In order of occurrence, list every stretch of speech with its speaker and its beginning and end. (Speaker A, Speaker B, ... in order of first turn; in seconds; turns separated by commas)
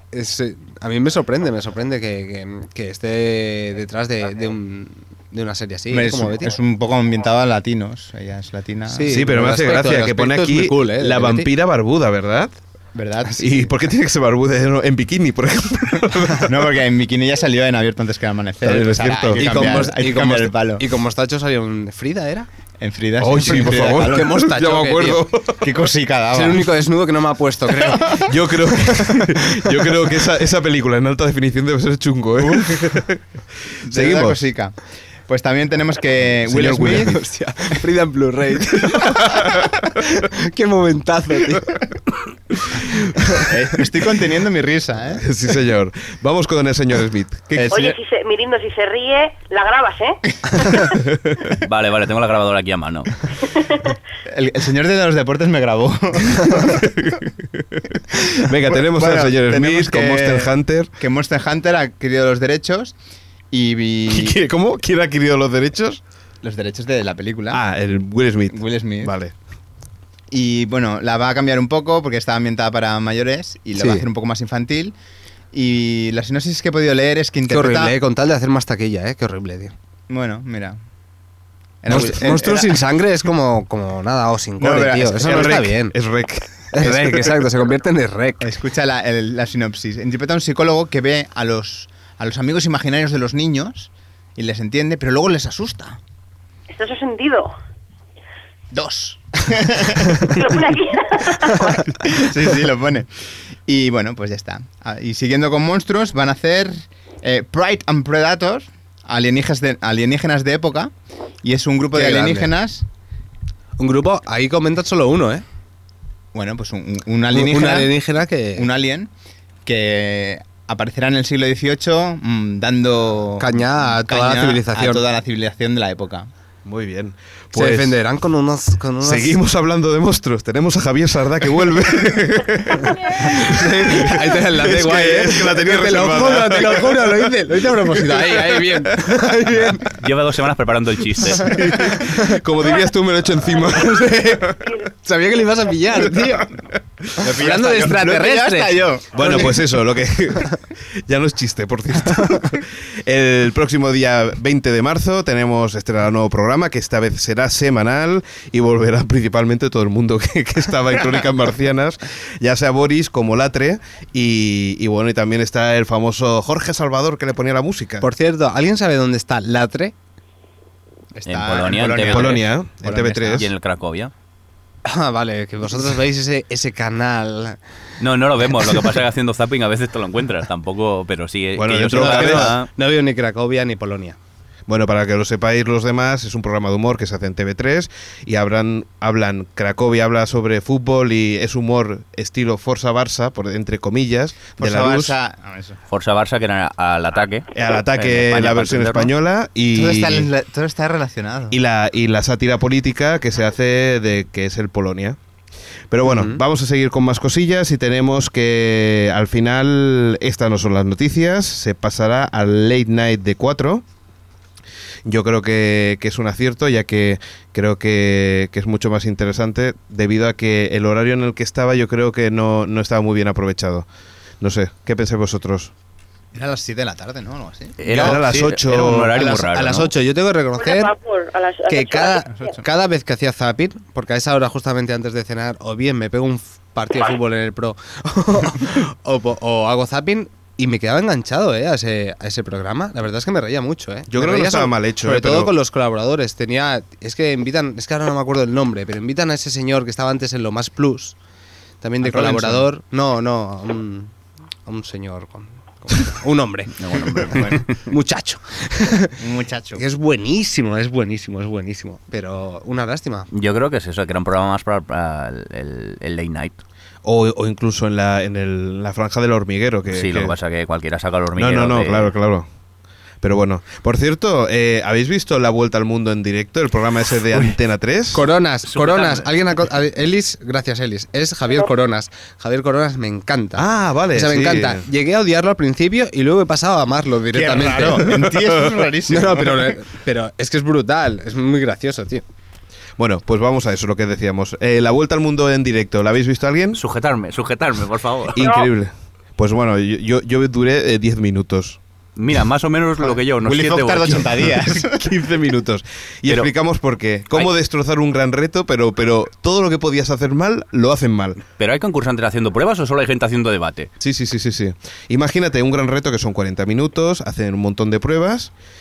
Speaker A: 0.1-6.6, Speaker B: 5.9-9.1, Speaker A: 8.9-11.5, Speaker C: 9.1-12.6, Speaker B: 12.9-13.7, Speaker C: 13.4-16.6, Speaker B: 16.4-20.8, Speaker C: 18.6-19.9, Speaker A: 19.4-22.5, Speaker B: 22.8-24.3, Speaker C: 23.2-25.7, Speaker A: 23.9-25.3, Speaker B: 25.6-26.6, Speaker A: 26.3-30.0, Speaker B: 27.9-28.3, Speaker C: 28.3-33.2, Speaker B: 33.8-34.8, Speaker C: 33.9-34.4, Speaker B: 35.3-37.2, Speaker C: 36.5-37.1, Speaker A: 36.8-41.9, Speaker C: 39.3-39.7, Speaker C: 42.5-43.5, Speaker B: 43.5-45.2, Speaker C: 45.2-47.7, Speaker B: 47.5-48.0, Speaker D: 47.7-50.9, Speaker E: 51.6-53.2, Speaker D: 53.5-53.9, Speaker B: 54.3-57.0, Speaker C: 56.6-57.8, Speaker C: 58.4-60.9, Speaker B: 58.7-63.0, Speaker B: 63.5-64.4, Speaker C: 64.1-66.0, Speaker B: 66.4-67.6, Speaker C: 67.5-69.3, Speaker B: 68.5-69.1, Speaker B: 70.3-75.0, Speaker A: 73.8-74.0, Speaker B: 75.5-77.9, Speaker A: 77.5-79.7, Speaker B: 80.1-80.8, Speaker B: 81.8-82.8, Speaker A: 81.9-85.9, Speaker B: 84.6-85.5, Speaker C: 85.2-87.3, Speaker A: 86.7-88.5, Speaker B: 88.4-96.0, Speaker D: 96.7-97.5, Speaker B: 98.7-100.6, Speaker D: 100.2-101.8, Speaker B: 101.6-103.1, Speaker B: 103.7-112.9, Speaker A: 111.9-112.5, Speaker A: 113.8-115.5, Speaker B: 116.3-117.9, Speaker A: 117.3-118.7, Speaker B: 118.6-119.1, Speaker B: 119.7-126.3, Speaker A: 123.4-125.0, Speaker C: 126.7-128.0, Speaker A: 127.5-129.4, Speaker C: 129.0-139.7, Speaker A: 133.0-140.0, Speaker E: 139.9-141.6, Speaker A: 141.4-142.4, Speaker C: 141.4-144.7, Speaker A: 143.7-146.5, Speaker C: 146.0-146.5, Speaker A: 147.2-149.5, Speaker B: 147.2-149.5, Speaker C: 149.2-168.1, Speaker A: 168.0-169.9, Speaker B: 171.2-173.5, Speaker E: 171.3-172.5, Speaker C: 172.1-173.5, Speaker E: 173.3-174.1, Speaker A: 174.8-177.6, Speaker E: 178.0-182.7, Speaker C: 181.6-182.6, Speaker A: 181.9-184.2, Speaker C: 184.7-195.1, Speaker B: 194.6-195.8, Speaker E: 195.9-199.1, Speaker C: 197.5-200.3, Speaker B: 199.7-201.6, Speaker C: 201.5-205.2, Speaker C: 205.9-213.8, Speaker A: 206.0-206.4, Speaker C: 215.1-223.9, Speaker C: 224.4-225.7, Speaker B: 226.3-228.2, Speaker E: 227.8-229.9, Speaker C: 227.9-229.2, Speaker A: 228.9-230.9, Speaker D: 230.6-232.5, Speaker A: 231.7-251.2, Speaker C: 244.1-245.5, Speaker A: 251.8-254.1, Speaker B: 252.0-252.6, Speaker A: 254.7-259.2, Speaker E: 256.8-257.8, Speaker B: 259.2-259.8, Speaker A: 259.8-263.3, Speaker E: 263.3-266.6, Speaker C: 267.1-270.4, Speaker E: 269.9-272.1, Speaker C: 271.4-272.5, Speaker C: 273.2-278.3, Speaker A: 278.1-288.2, Speaker E: 278.6-279.3, Speaker C: 283.6-284.9, Speaker B: 287.3-289.7, Speaker A: 289.1-292.2, Speaker C: 293.0-296.8, Speaker E: 296.8-298.4, Speaker C: 298.3-301.8, Speaker D: 298.4-298.7, Speaker E: 302.2-304.3, Speaker B: 303.4-305.1, Speaker C: 304.7-311.4, Speaker E: 311.6-313.9, Speaker C: 314.0-318.5